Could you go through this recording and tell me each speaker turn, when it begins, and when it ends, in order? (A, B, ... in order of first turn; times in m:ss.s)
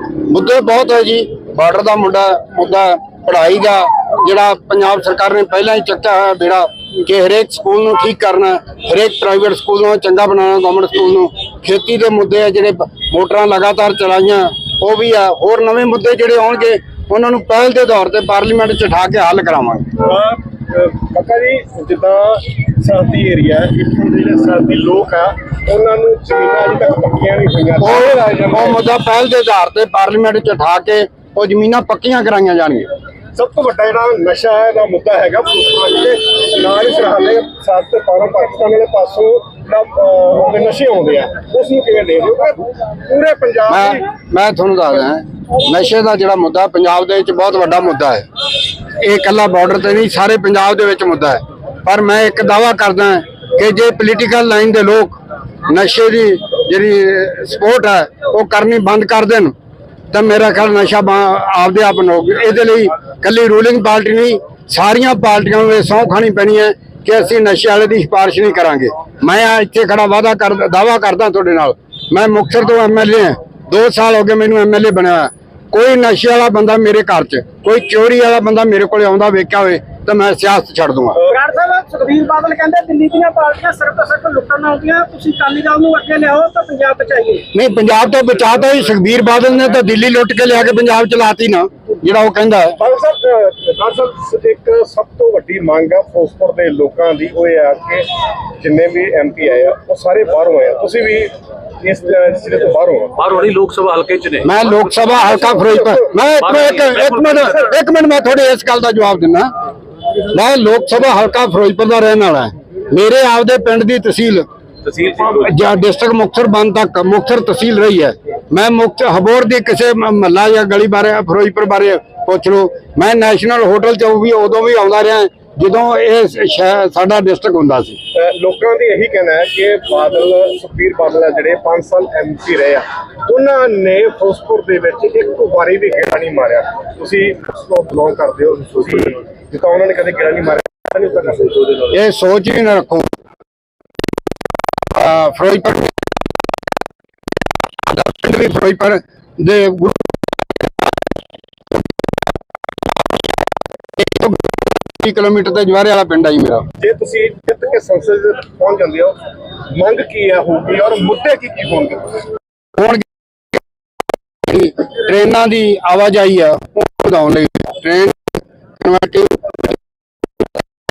0:00.3-0:19.8 A
0:20.0-0:28.8 B
0:27.8-0:32.9 A
0:33.3-0:44.0 B
0:43.7-0:48.2 A
0:49.0-0:59.5 A
1:00.1-1:21.2 A
1:21.3-1:27.5 C
1:27.5-1:32.8 A
1:32.8-1:38.1 B
1:38.6-1:43.2 B
1:43.2-1:44.5 D
1:44.4-1:49.5 A
1:45.5-1:46.2 B
1:46.4-1:47.6 D
1:50.3-1:54.5 A
1:54.8-1:55.5 D
1:55.2-2:08.0 A
2:08.1-2:21.8 B
2:21.9-2:23.1 A
2:24.9-2:25.9 A
2:27.9-2:30.2 A
2:34.0-2:36.6 A
2:36.8-2:39.2 B
2:39.7-2:42.2 B
2:42.8-2:43.0 A
2:44.5-2:48.2 A
2:48.8-2:49.4 A